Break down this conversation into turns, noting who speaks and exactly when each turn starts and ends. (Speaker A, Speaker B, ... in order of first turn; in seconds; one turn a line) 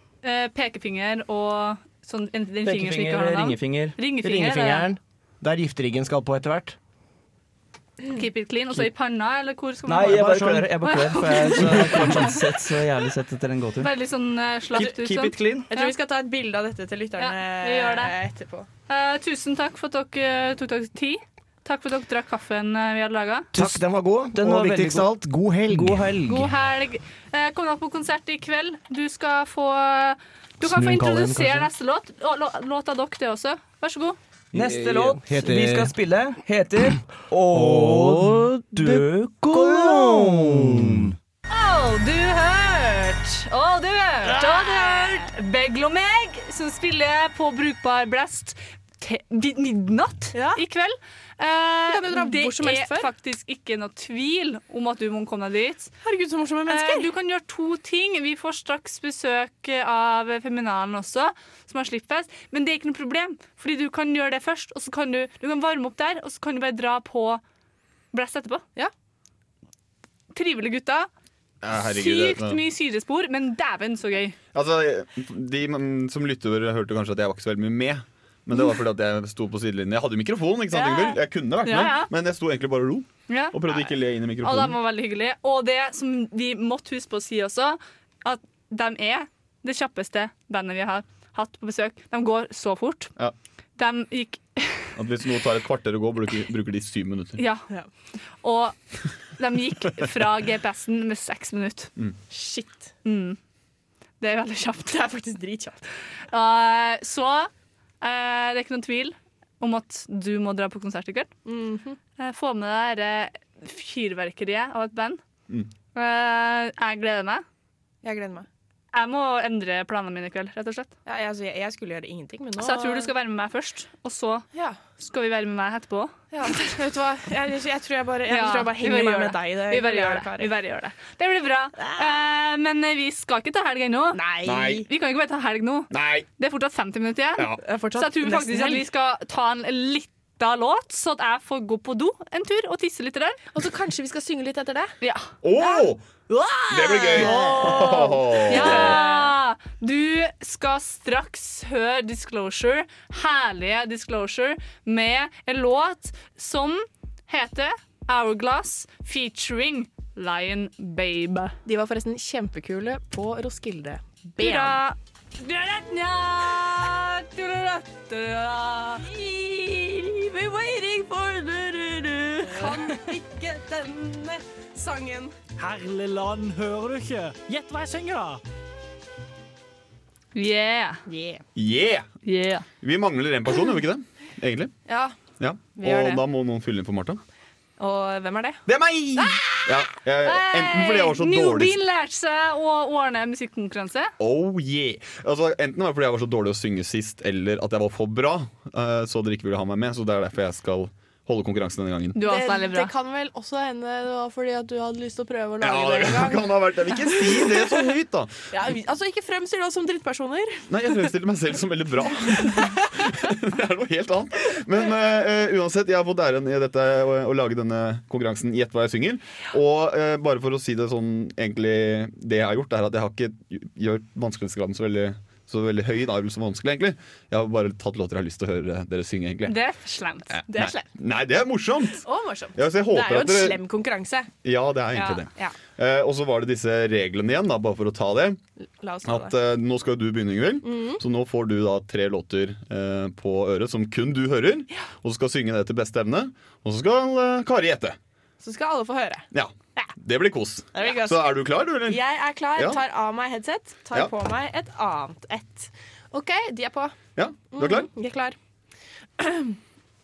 Speaker A: 0.2-4.9
Speaker B: 2.6-4.0
Speaker C: 4.1-6.8
Speaker A: 8.1-12.4
Speaker B: 9.9-13.9
Speaker C: 10.0-12.4
Speaker A: 13.8-15.9
Speaker B: 14.7-15.7
Speaker D: 15.7-18.7
Speaker A: 17.2-18.1
Speaker A: 18.9-23.5
Speaker C: 23.5-26.2
Speaker B: 24.3-26.5
Speaker A: 26.3-34.2
Speaker C: 30.6-31.7
Speaker B: 34.5-40.9
Speaker C: 34.5-36.0
Speaker C: 37.3-41.1
Speaker A: 41.5-55.9
Speaker D: 44.3-45.2
Speaker D: 50.3-50.6
Speaker D: 51.9-53.1
Speaker D: 56.0-57.1
Speaker A: 56.7-67.4
Speaker A: 68.1-68.6
Speaker A: 70.3-71.1
Speaker E: 71.6-72.6
Speaker A: 71.8-74.4
Speaker E: 74.5-84.8
Speaker A: 81.6-82.1
Speaker A: 83.3-83.9
Speaker A: 84.4-93.1
Speaker A: 93.8-94.9
Speaker E: 95.0-97.4
Speaker A: 97.4-97.7
Speaker A: 98.4-98.8
Speaker A: 99.4-101.9
Speaker D: 102.3-102.9
Speaker A: 103.0-103.4
Speaker A: 104.2-105.0
Speaker D: 104.9-105.8
Speaker A: 106.3-107.5
Speaker A: 108.0-111.3
Speaker D: 111.5-112.0
Speaker A: 112.2-115.2
Speaker A: 116.0-117.4
Speaker D: 118.0-118.5
Speaker A: 118.9-120.9
Speaker D: 121.1-123.1
Speaker A: 122.6-124.5
Speaker A: 125.0-126.2
Speaker D: 126.3-130.5
Speaker A: 128.3-134.2
Speaker D: 131.8-132.2
Speaker D: 134.1-134.8
Speaker E: 134.4-134.9
Speaker A: 134.7-143.4
Speaker E: 135.9-136.3
Speaker D: 137.6-138.9
Speaker D: 143.5-144.9
Speaker A: 145.0-145.3
Speaker E: 145.4-146.0
Speaker A: 146.4-147.9
Speaker E: 146.7-149.0
Speaker D: 146.8-149.3
Speaker A: 148.5-161.6
Speaker D: 161.7-164.8
Speaker A: 164.4-169.1
Speaker D: 169.0-175.3
Speaker F: 175.6-178.4
Speaker A: 180.3-181.0
Speaker D: 181.1-181.4
Speaker E: 181.6-182.1
Speaker A: 182.2-182.7
Speaker E: 182.8-184.7
Speaker D: 184.9-185.1
Speaker E: 185.4-187.2
Speaker D: 185.8-186.2
Speaker D: 187.8-188.6
Speaker E: 188.7-191.8
Speaker A: 190.2-194.1
Speaker E: 194.2-202.2
Speaker A: 202.2-202.9
Speaker D: 202.2-207.8
Speaker E: 205.6-208.3
Speaker D: 208.5-211.0
Speaker E: 210.7-229.6
Speaker A: 229.4-230.4
Speaker E: 230.3-232.0
Speaker D: 230.5-230.9
Speaker D: 232.0-234.3
Speaker E: 232.6-233.6
Speaker E: 234.4-238.4
Speaker D: 234.9-235.6
Speaker D: 238.8-239.3
Speaker E: 239.1-248.0
Speaker D: 240.6-241.0
Speaker D: 248.4-249.3
Speaker E: 249.3-252.0
Speaker D: 250.7-257.0
Speaker E: 257.2-257.9
Speaker D: 257.5-258.4
Speaker D: 259.2-259.6